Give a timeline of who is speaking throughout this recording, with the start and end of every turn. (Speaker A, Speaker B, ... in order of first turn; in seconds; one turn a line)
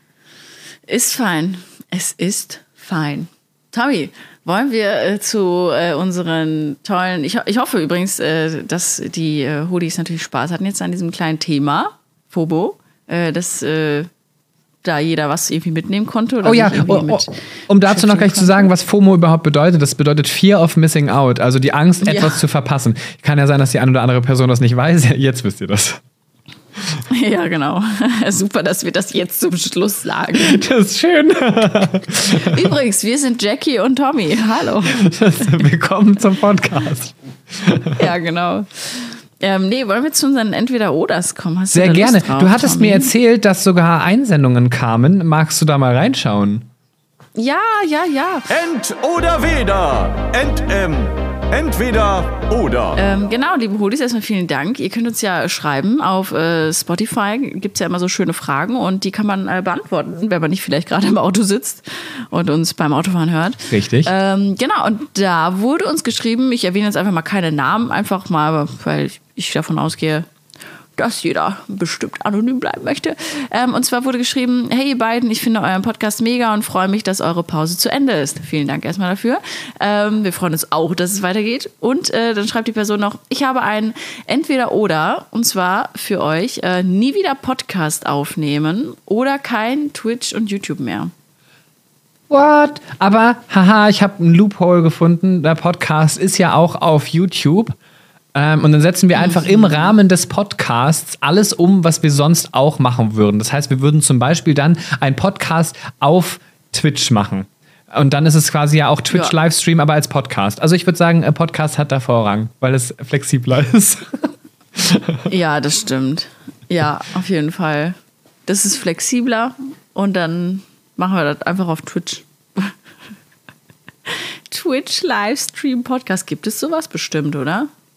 Speaker A: 0.9-14.1
Speaker A: 14.8-18.7
Speaker B: 16.4-26.0
Speaker A: 22.0-22.4
Speaker A: 27.1-30.6
Speaker B: 30.3-32.7
Speaker A: 32.3-35.2
Speaker B: 35.0-38.1
Speaker A: 38.0-43.1
Speaker B: 41.7-46.7
Speaker A: 47.4-48.5
Speaker C: 48.5-53.0
Speaker A: 53.0-70.3
Speaker B: 63.7-64.1
Speaker A: 71.0-91.1
Speaker B: 92.3-97.8
Speaker B: 98.3-115.3
Speaker A: 99.1-99.9
Speaker A: 109.1-109.3
Speaker A: 115.3-122.7
Speaker A: 124.1-127.7